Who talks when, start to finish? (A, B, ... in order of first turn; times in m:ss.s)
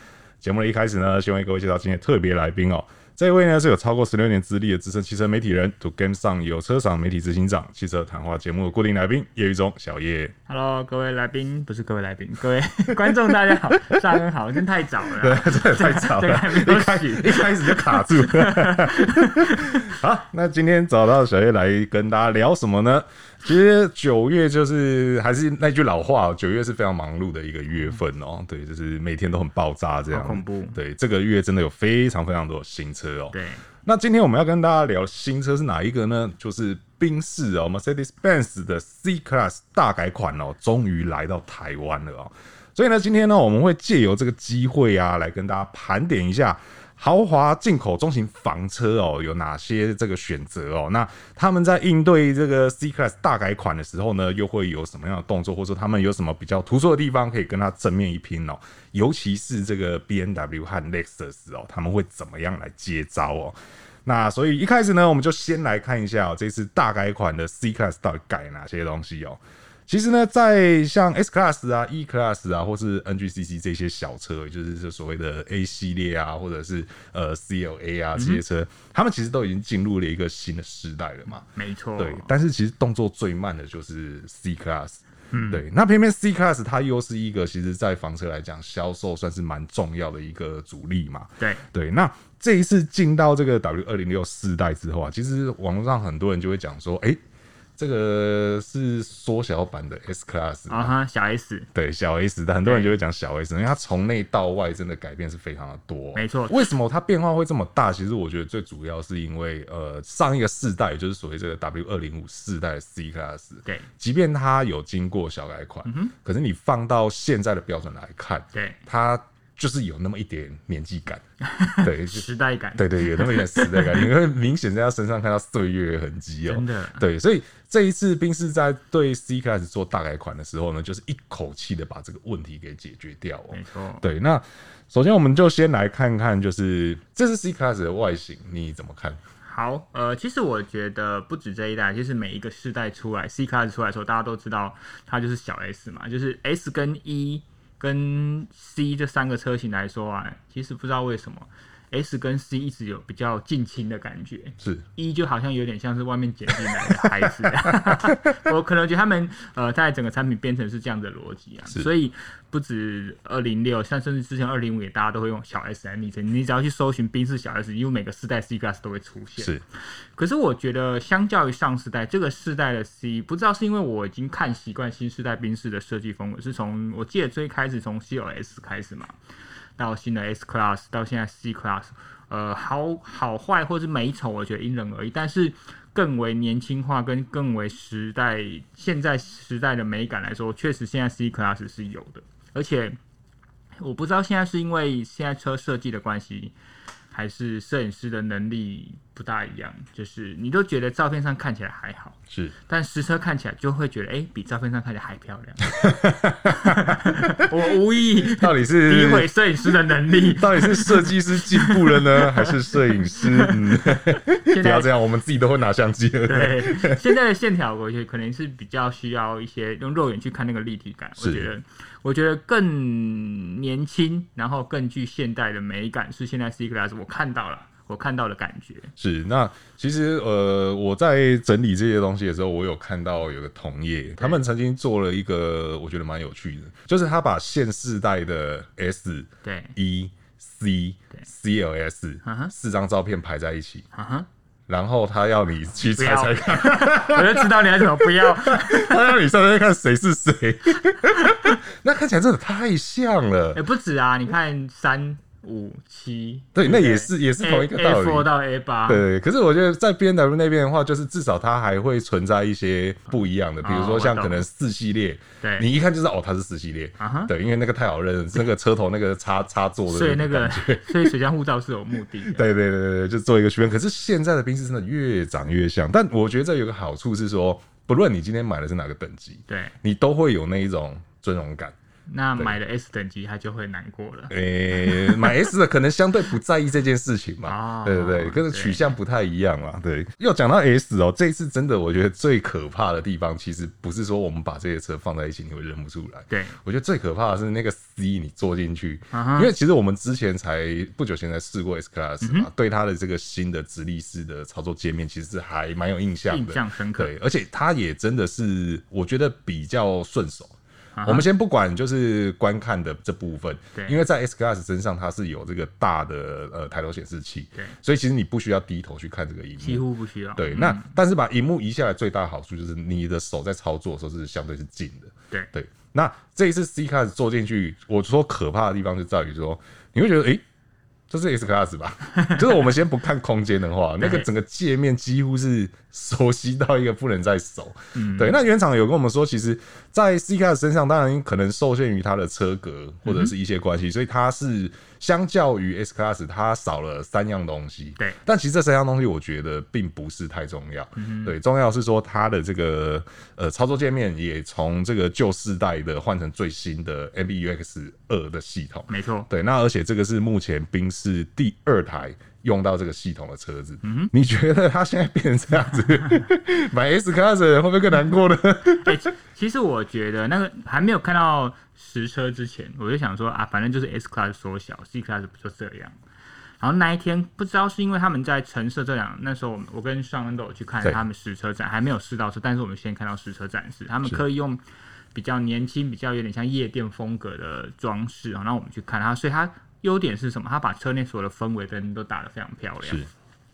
0:00.4-0:10.4 A
0:10.5-0:20.0 B
0:15.2-1:37.2 A
0:30.1-0:30.8 B
0:33.3-0:33.6 B
1:18.2-1:18.4 B
1:21.6-1:22.3 B
1:25.3-1:25.6 B
1:37.8-1:40.9 A
1:40.7-1:41.7 B
1:41.8-2:01.2 A
1:42.6-1:42.9 B
1:46.2-1:46.6 B
1:55.8-1:56.1 B
1:58.5-1:58.8 B
2:01.4-2:04.1 B
2:01.8-2:19.2 A
2:06.5-2:07.0 B
2:13.5-2:14.0 B
2:19.4-2:49.5 B
2:36.7-2:38.2 A
2:50.2-2:59.1 B
2:59.8-3:13.0 B
3:13.8-3:16.5 B
3:17.1-3:25.8 B
3:25.7-3:27.4 A
3:26.5-3:34.9 B
3:28.4-3:29.3 A
3:30.3-3:37.0 A
3:36.3-3:48.9 B
3:41.2-3:41.5 A
3:49.0-4:03.9 A
3:59.4-3:59.7 B
4:02.2-4:02.5 B
4:03.9-4:04.3 B
4:04.7-4:13.6 A
4:06.0-4:09.0 B
4:11.1-4:11.6 B
4:13.5-4:19.0 B
4:16.6-4:18.3 A
4:18.9-4:31.1 A
4:23.6-4:24.4 B
4:25.4-4:25.7 B
4:27.0-4:27.3 B
4:29.9-4:32.5 B
4:32.3-4:41.8 A
4:39.5-4:39.7 B
4:42.1-4:45.3 B
4:44.3-5:19.8 A
4:47.5-4:48.9 B
4:56.3-4:56.6 B
4:59.1-4:59.5 B
5:02.2-5:02.5 B
5:06.3-5:07.1 B
5:11.0-5:11.3 B
5:13.8-5:14.0 B
5:19.6-5:20.9 B
5:20.4-5:30.4 A
5:31.1-6:09.0 A
5:32.1-5:32.6 B
5:34.0-5:34.3 B
5:38.0-5:38.4 B
5:43.0-5:43.3 B
5:51.0-5:51.3 B
5:58.9-5:59.3 B
6:03.8-6:04.1 B
6:08.8-6:16.0 B
6:16.6-6:24.6 B
6:25.1-6:33.1 B